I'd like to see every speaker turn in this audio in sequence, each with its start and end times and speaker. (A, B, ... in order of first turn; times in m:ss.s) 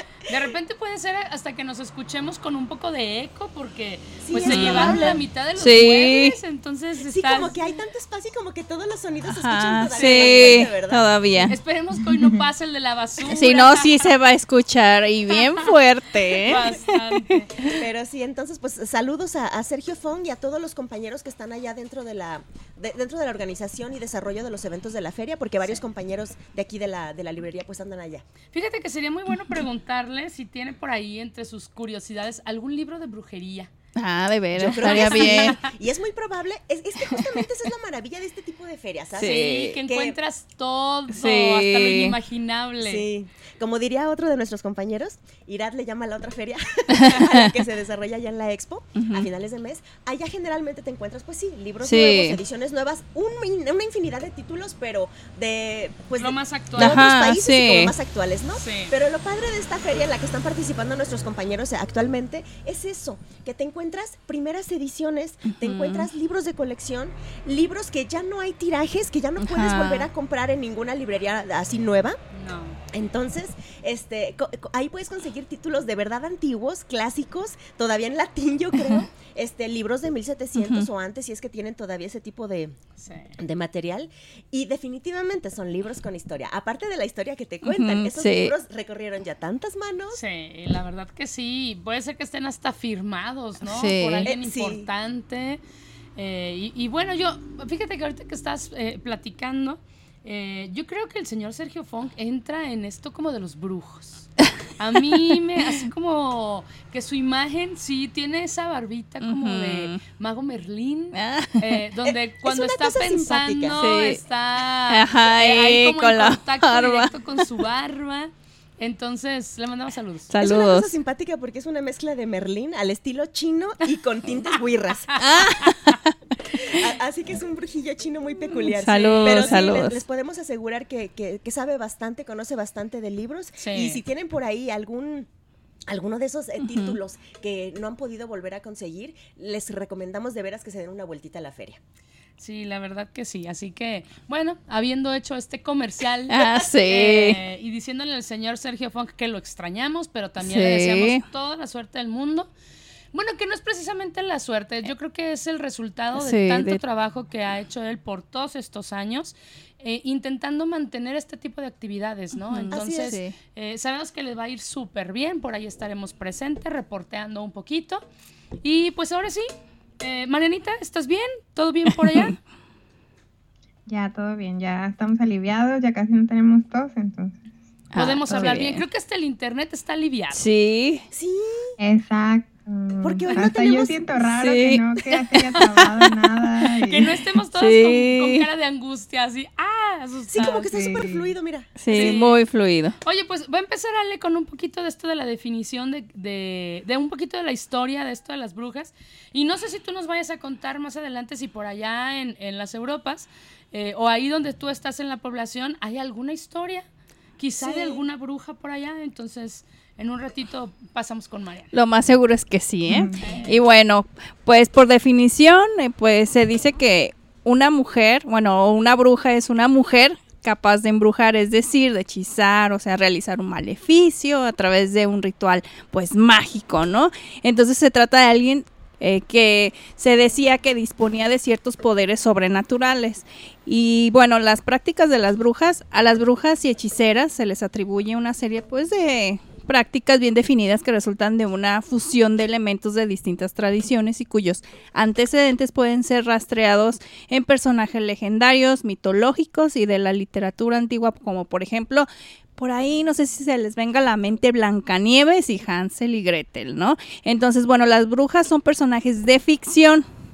0:00.3-0:07.6 A
0:04.2-0:05.2 B
0:04.4-0:06.3 C
0:07.0-0:11.1 B
0:09.2-0:11.5 C
0:10.0-0:10.7 A
0:11.5-0:14.1 A
0:12.0-0:12.4 D
0:13.3-0:17.0 C
0:16.4-0:17.5 A
0:17.7-0:28.2 B
0:28.5-0:33.7 A
0:34.0-0:35.6 C
0:34.5-0:40.2 B
0:34.9-0:35.6 A
0:37.1-0:37.4 C
0:39.2-0:39.8 C
0:39.2-0:43.0 A
0:41.1-0:42.1 C
0:42.8-1:12.2 B
0:49.0-0:49.3 C
0:51.8-0:52.4 C
0:56.2-0:57.0 A
0:56.8-0:57.9 C
0:58.5-0:58.9 A
1:05.5-1:06.1 C
1:09.4-1:10.1 C
1:12.3-1:12.8 A
1:12.9-1:22.8 B
1:18.7-1:19.0 C
1:20.5-1:20.8 C
1:23.0-1:23.3 A
1:23.4-1:30.2 B
1:27.6-1:28.5 C
1:30.1-1:35.6 A
1:33.6-1:34.2 C
1:34.2-1:34.9 B
1:36.2-2:00.3 A
1:49.2-1:50.0 C
1:51.1-1:51.8 C
1:52.0-1:53.8 B
1:53.8-1:54.2 C
1:54.9-1:57.5 C
2:00.3-2:01.0 C
2:00.4-2:05.2 B
2:05.2-2:06.0 A
2:05.2-2:06.2 C
2:06.5-2:15.3 B
2:08.7-2:10.0 C
2:13.6-2:14.0 A
2:15.9-2:21.8 B
2:16.6-2:17.0 C
2:22.4-2:32.5 A
2:26.3-2:27.4 C
2:30.4-2:31.2 C
2:33.1-2:48.0 A
2:36.2-2:36.8 C
2:42.4-2:43.4 C
2:42.7-2:43.1 B
2:48.6-2:49.5 A
2:50.0-2:52.3 A
2:53.9-2:57.5 D
2:57.9-2:58.8 C
2:58.0-3:00.4 A
3:00.3-3:01.0 C
3:01.1-3:01.7 B
3:01.8-3:07.1 D
3:03.0-3:04.0 B
3:04.4-3:06.8 C
3:06.9-3:10.7 A
3:07.5-3:08.4 C
3:10.3-3:12.2 B
3:10.7-3:11.3 D
3:11.8-3:13.0 C
3:11.9-3:12.4 A
3:13.0-3:26.9 A
3:27.4-3:31.7 A
3:27.6-3:28.0 B
3:31.7-4:20.0 C
3:32.9-3:33.2 D
3:33.2-3:33.6 A